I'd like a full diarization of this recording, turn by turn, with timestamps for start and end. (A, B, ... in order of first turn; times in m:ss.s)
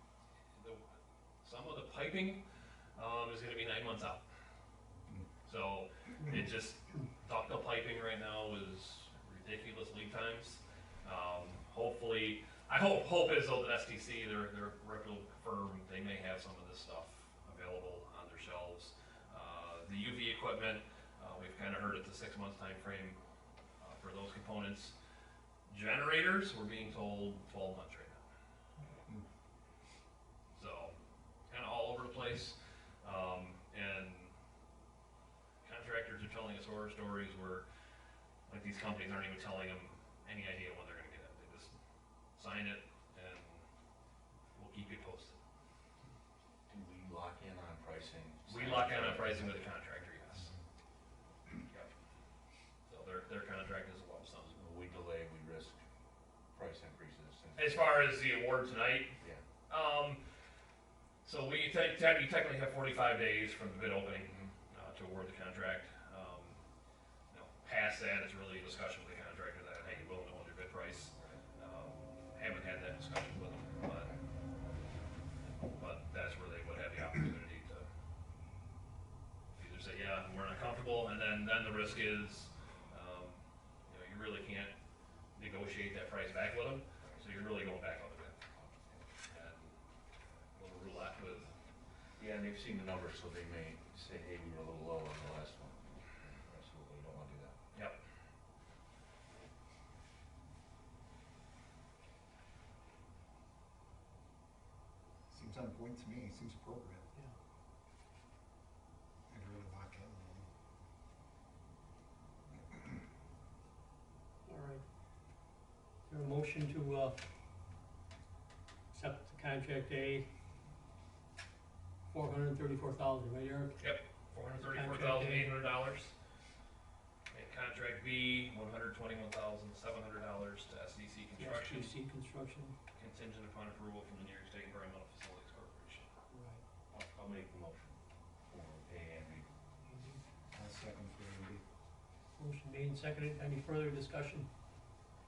0:00.6-0:00.8 A
0:01.4-0:02.4 A
0:03.0-0:04.2 A
0:05.5-0:23.2 A
0:23.8-0:25.0 A
0:25.7-0:28.2 A
0:30.5-0:31.0 A
0:31.5-0:34.3 A
0:35.6-0:37.6 A
0:38.5-0:41.8 A
0:42.4-0:43.7 A
0:44.6-0:45.4 A
0:46.7-0:49.7 B
0:48.5-0:50.5 A
0:51.7-0:51.9 A
0:52.9-0:54.6 A
0:54.5-0:55.8 B
0:56.5-0:58.0 B
0:57.6-0:59.2 A
0:59.7-1:00.2 A
1:01.2-1:06.6 A
1:04.2-1:04.5 B
1:07.3-1:14.1 A
1:11.2-1:11.4 B
1:14.0-1:14.2 B
1:15.6-1:17.9 A
1:19.6-1:24.7 A
1:25.4-1:28.4 A
1:28.6-1:29.1 B
1:29.3-1:29.8 A
1:30.6-1:31.5 A
1:32.2-1:37.6 B
1:37.7-1:38.0 A
1:45.3-1:47.1 C
1:49.3-1:50.5 C
1:54.5-1:54.8 D
1:56.1-1:57.2 D
1:58.9-2:00.3 D
2:02.1-2:03.9 D
2:03.8-2:06.1 A
2:04.6-2:05.5 D
2:07.3-2:11.9 A
2:11.4-2:12.8 D
2:13.0-2:16.1 A
2:16.3-2:16.6 D
2:16.9-2:19.5 B
2:19.9-2:20.2 D
2:20.5-2:21.6 C
2:22.4-2:24.5 D